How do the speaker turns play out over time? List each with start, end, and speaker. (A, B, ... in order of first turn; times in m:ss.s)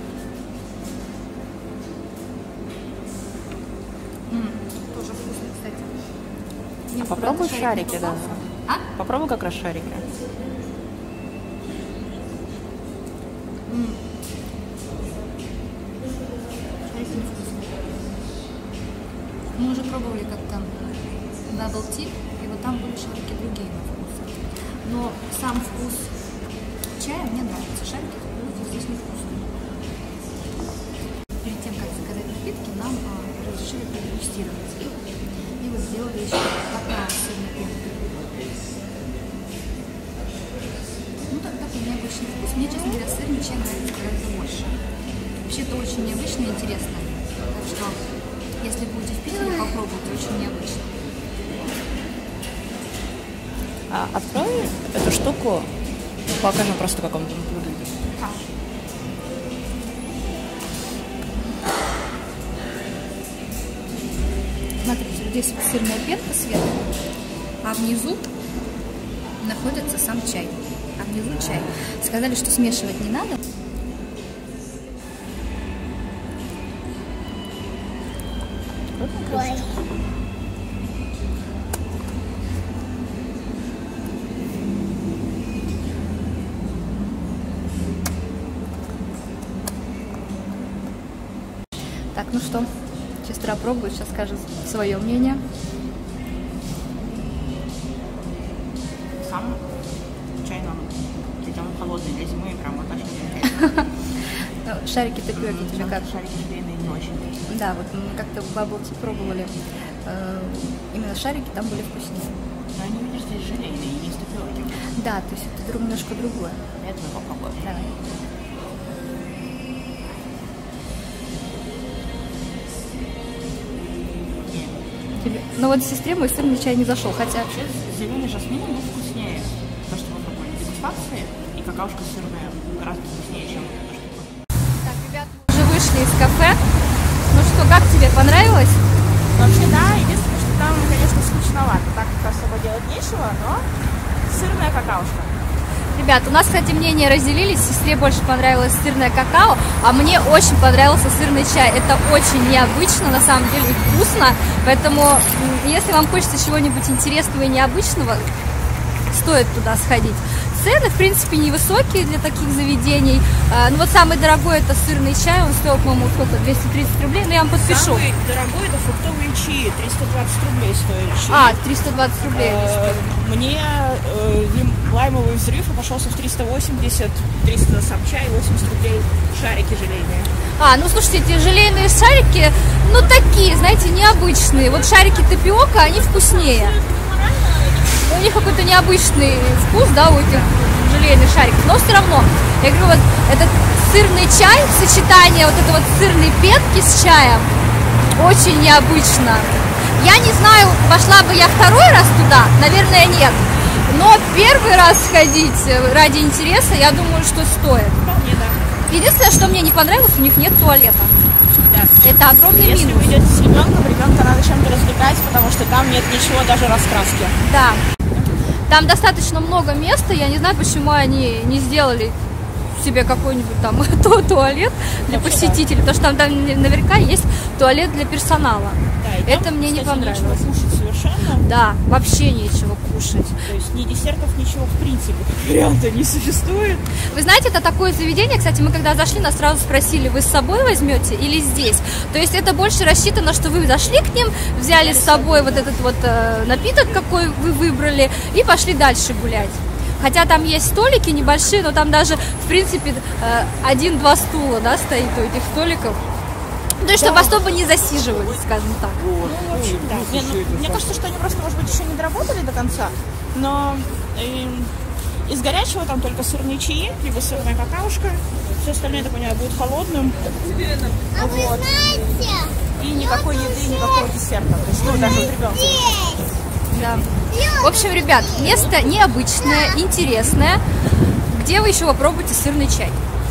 0:04.3-0:06.0 A
0:06.9-0:08.9 A
0:07.0-0:10.1 B
0:13.7-0:14.0 A
0:16.9-0:18.0 A
0:19.6-0:20.8 A
0:21.5-0:26.2 A
0:27.0-0:29.5 A
0:31.4-0:35.1 A
0:35.6-0:38.2 A
0:41.3-0:44.8 A
0:45.4-0:48.0 A
0:48.6-0:51.0 A
0:53.9-0:55.7 B
0:56.3-0:58.1 B
1:04.8-1:06.9 A
1:07.6-1:08.3 A
1:09.4-1:13.4 A
1:19.0-1:19.8 B
1:32.1-1:32.7 A
1:33.2-1:35.4 A
1:39.2-1:39.6 B
1:40.4-1:43.8 B
1:43.5-1:43.9 A
1:44.6-1:46.2 A
1:45.3-1:47.4 B
1:47.5-1:52.4 A
1:52.7-1:54.9 B
1:54.9-1:56.6 A
1:56.8-1:57.7 B
1:57.6-1:57.9 A
2:04.4-2:04.8 B
2:05.2-2:07.5 A
2:07.5-2:14.3 B
2:14.8-2:16.6 A
2:17.3-2:18.8 A
2:19.4-2:23.7 B
2:24.3-2:25.4 B
2:26.0-2:38.3 A
2:39.1-2:48.1 A
2:47.5-3:00.3 B
2:51.3-2:53.0 A
3:00.6-3:06.8 A
3:04.5-3:09.0 B
3:08.0-3:17.5 A
3:18.2-3:28.0 A
3:28.0-3:28.9 B
3:28.9-3:31.1 A
3:31.7-3:37.4 B
3:32.0-3:33.2 A
3:37.4-3:37.8 A
3:38.7-3:42.2 A
3:42.7-3:50.5 A
3:45.0-3:45.6 B
3:49.0-3:51.5 B
3:51.4-3:53.5 A
3:53.4-3:57.0 B
3:57.0-4:16.0 A
4:04.7-4:05.8 B
4:16.8-4:19.1 A
4:16.9-4:17.5 B
4:19.0-4:30.3 B
4:31.0-4:32.0 B
4:32.8-4:37.2 B
4:36.7-4:40.6 A
4:38.5-4:38.8 B
4:41.3-4:43.0 A